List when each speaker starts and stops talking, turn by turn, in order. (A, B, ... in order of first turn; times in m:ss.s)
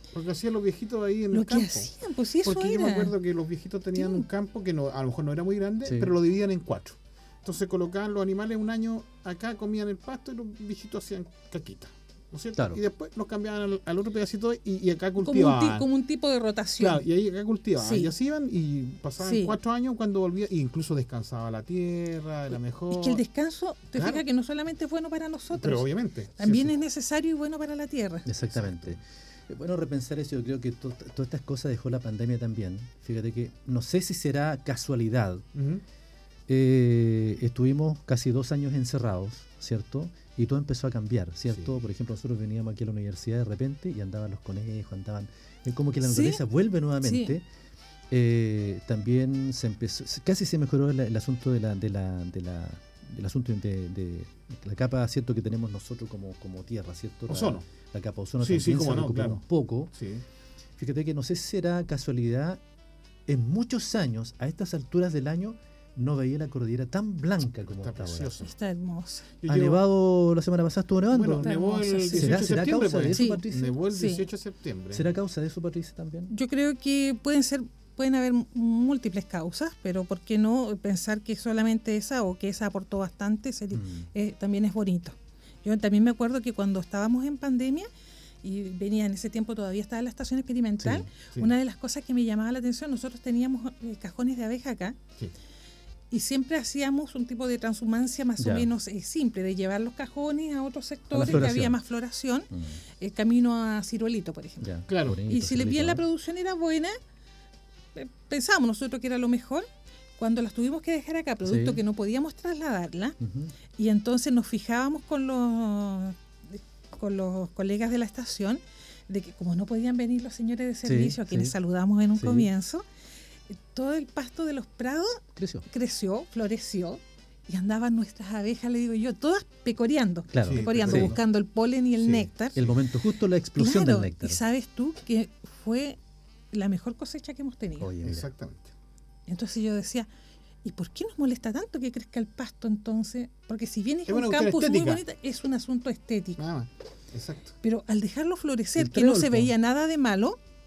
0:00.1-0:01.9 A
0:01.3-0:03.2 B
0:02.4-0:15.9 A
0:04.0-0:04.2 B
0:05.9-0:06.1 C
0:12.6-0:12.8 C
0:15.2-0:17.0 B
0:16.8-0:23.2 A
0:17.8-0:18.1 B
0:19.2-0:19.6 B
0:22.9-0:25.9 B
0:24.0-0:24.2 A
0:25.5-0:26.7 A
0:26.4-0:28.3 B
0:28.3-0:35.4 C
0:28.5-0:29.0 A
0:35.5-0:35.8 A
0:36.5-0:47.4 C
0:41.5-0:41.8 A
0:46.0-0:46.4 B
0:47.0-0:47.3 B
0:48.1-0:59.9 C
0:57.3-0:57.6 A
0:58.4-1:00.2 A
1:00.8-1:02.6 C
1:03.3-1:08.4 C
1:07.8-1:08.5 A
1:08.4-1:09.3 B
1:09.4-1:09.8 A
1:09.5-1:11.5 C
1:11.1-1:15.1 A
1:11.4-1:12.6 B
1:12.1-1:13.8 C
1:13.1-1:14.3 B
1:14.9-1:16.3 C
1:16.3-1:27.9 B
1:23.7-1:24.1 C
1:28.4-1:35.0 B
1:30.8-1:31.1 C
1:36.1-1:44.7 B
1:38.4-1:38.7 C
1:41.1-1:41.8 C
1:42.5-1:42.8 C
1:44.6-1:46.0 C
1:44.9-1:45.2 A
1:45.3-1:47.0 B
1:48.0-1:49.7 B
1:50.2-1:53.2 B
1:51.4-1:51.8 C
1:53.2-1:53.5 C
1:53.8-2:02.8 B
2:00.8-2:01.5 C
2:02.2-2:02.5 C
2:03.5-2:12.6 B
2:05.4-2:05.7 C
2:10.3-2:11.2 C
2:10.4-2:11.2 A
2:12.0-2:12.7 A
2:12.6-2:14.4 C
2:13.6-2:16.0 B
2:16.5-2:17.9 B
2:17.8-2:18.3 C
2:18.0-2:18.7 A
2:19.3-2:20.1 B
2:20.6-2:26.4 B
2:24.1-2:25.0 A
2:26.4-2:27.6 A
2:27.6-2:30.4 B
2:28.8-2:29.5 C